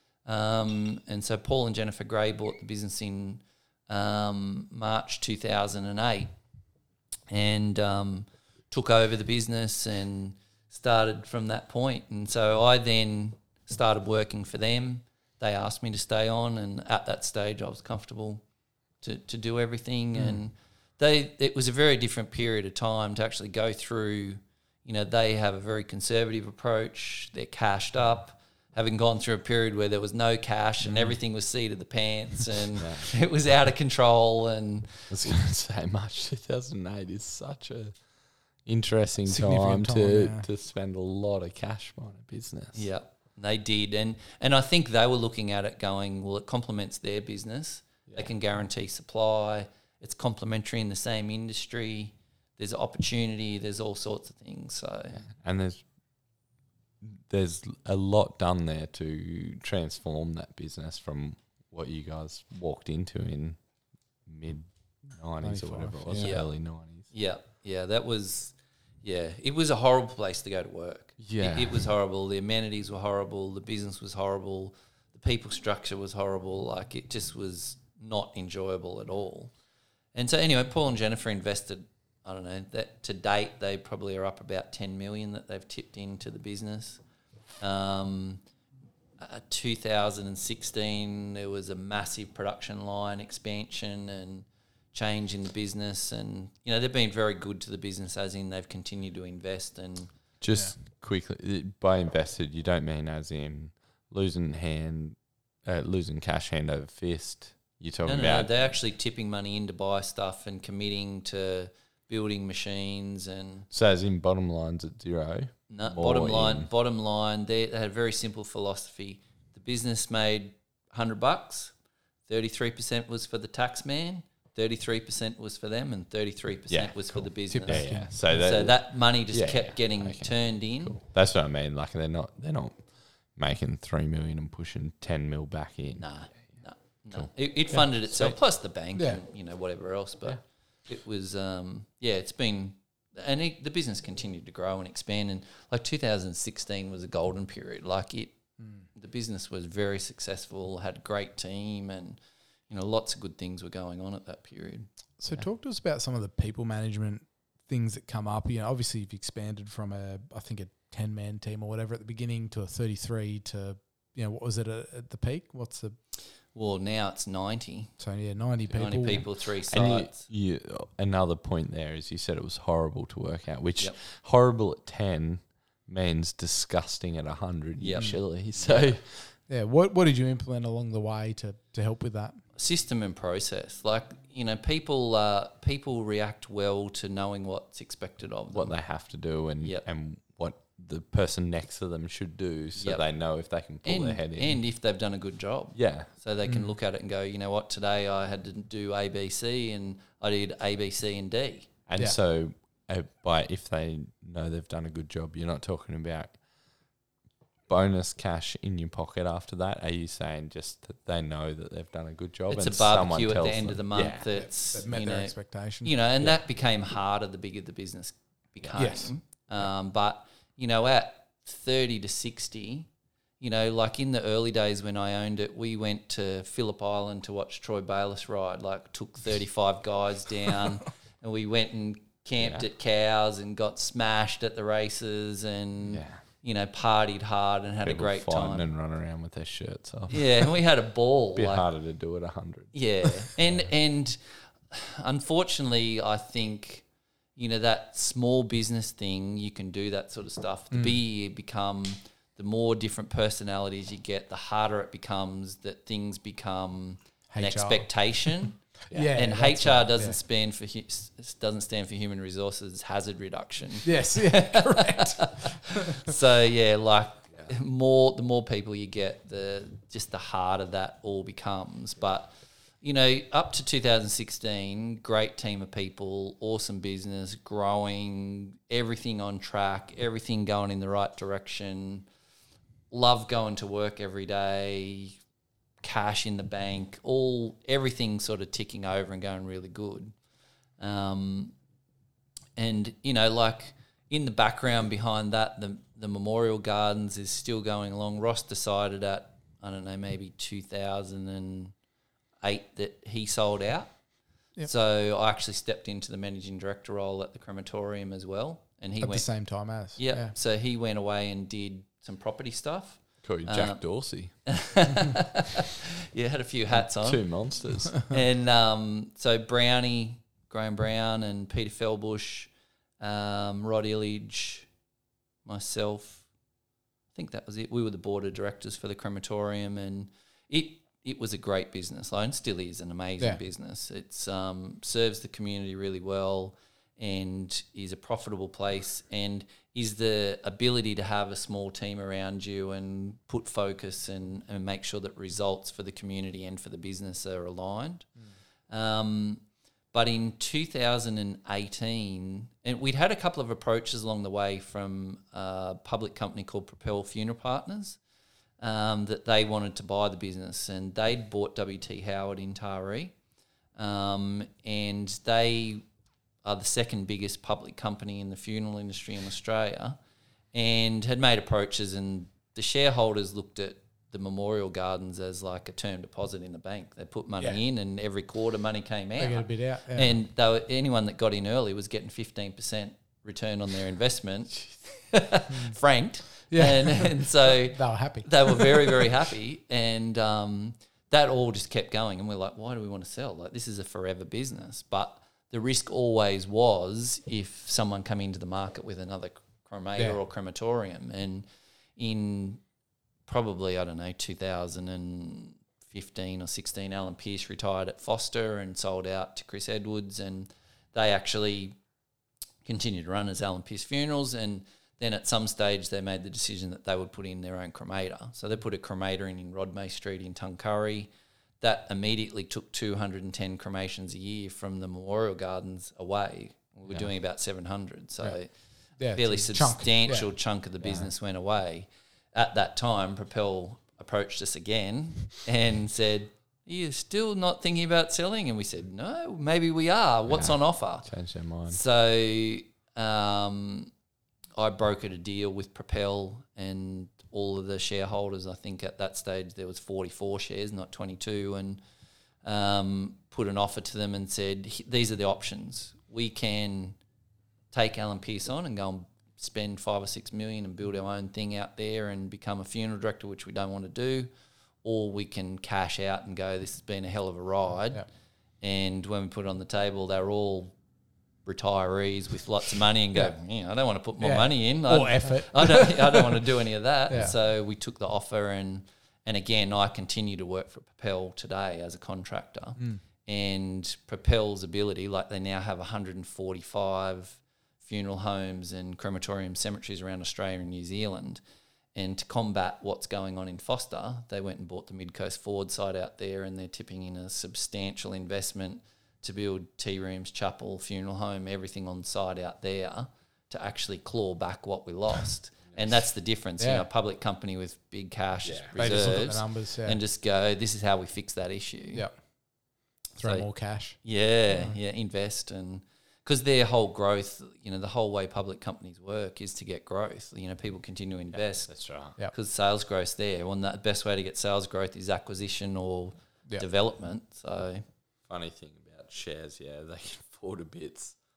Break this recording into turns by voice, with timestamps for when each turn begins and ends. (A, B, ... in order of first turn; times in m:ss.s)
0:00.2-0:06.3 A
0:07.3-0:18.4 A
0:19.0-0:35.4 A
0:20.2-0:20.4 B
0:32.8-0:33.1 C
0:35.1-0:38.1 C
0:38.6-0:42.8 C
0:39.3-0:40.5 B
0:42.7-0:55.2 A
0:48.1-0:48.3 C
0:55.1-0:55.8 C
0:57.0-1:03.6 C
1:04.2-1:07.1 C
1:05.4-1:06.3 B
1:06.2-1:19.5 A
1:11.2-1:11.9 C
1:20.1-1:27.0 A
1:27.6-1:28.4 A
1:29.2-1:40.1 A
1:40.4-1:48.5 C
1:48.0-1:53.7 A
1:53.7-1:56.7 C
1:55.7-2:01.7 A
2:02.3-2:11.0 A
2:06.7-2:16.6 C
2:07.5-2:08.2 B
2:16.0-2:32.2 A
2:17.1-2:18.4 C
2:18.9-2:19.2 B
2:28.6-2:28.8 B
2:32.7-2:35.5 A
2:35.2-2:46.0 B
2:46.5-2:48.0 A
2:48.0-2:49.2 B
2:48.7-2:50.2 A
2:49.1-2:59.3 C
2:57.8-2:59.0 A
2:59.5-3:02.4 B
3:02.6-3:09.0 A
3:08.5-3:14.6 C
3:09.6-3:09.8 A
3:12.8-3:13.0 A
3:13.8-3:21.7 A
3:15.7-3:16.1 C
3:16.4-3:16.7 B
3:21.9-3:26.4 C
3:27.7-3:34.3 C
3:32.5-3:42.9 A
3:34.3-3:36.0 B
3:38.8-3:39.1 B
3:43.4-3:58.7 A
3:52.4-3:52.6 C
3:55.9-3:56.2 C
3:57.8-4:00.5 C
4:00.1-4:01.7 A
4:01.3-4:03.6 C
4:02.7-4:42.1 A
4:10.7-4:11.0 B
4:17.3-4:20.2 B
4:23.8-4:25.8 B
4:42.9-4:45.2 A
4:45.8-4:50.1 A
4:50.8-4:51.5 A
4:52.6-5:01.7 A
5:02.4-5:04.0 A
5:04.6-5:24.7 A
5:09.0-5:10.3 B
5:13.2-5:14.5 C
5:16.7-5:18.1 C
5:25.4-5:26.2 A
5:27.1-5:48.2 A
5:48.7-5:58.0 A
5:58.6-6:03.1 A
6:03.8-6:05.8 A
6:06.4-6:10.0 A
6:10.5-6:42.6 A
6:19.2-6:20.1 B
6:26.5-6:29.0 B
6:43.3-6:51.8 A
6:52.6-7:01.1 A
7:01.6-7:21.1 A
7:09.0-7:10.3 B
7:10.8-7:11.1 C
7:20.3-7:21.8 C
7:21.7-7:23.9 A
7:24.6-7:31.8 A
7:32.4-7:37.0 A
7:37.7-7:44.3 A
7:44.8-7:48.0 A
7:48.6-7:50.8 A
7:51.4-8:11.4 A
7:54.2-7:56.4 B
7:57.1-7:57.3 B
8:11.9-8:32.0 A
8:25.7-8:26.0 C
8:26.6-8:26.9 B
8:28.4-8:29.2 C
8:28.7-8:30.0 B
8:31.9-8:34.7 B
8:33.2-8:47.8 A
8:41.3-8:42.2 C
8:48.3-8:51.2 C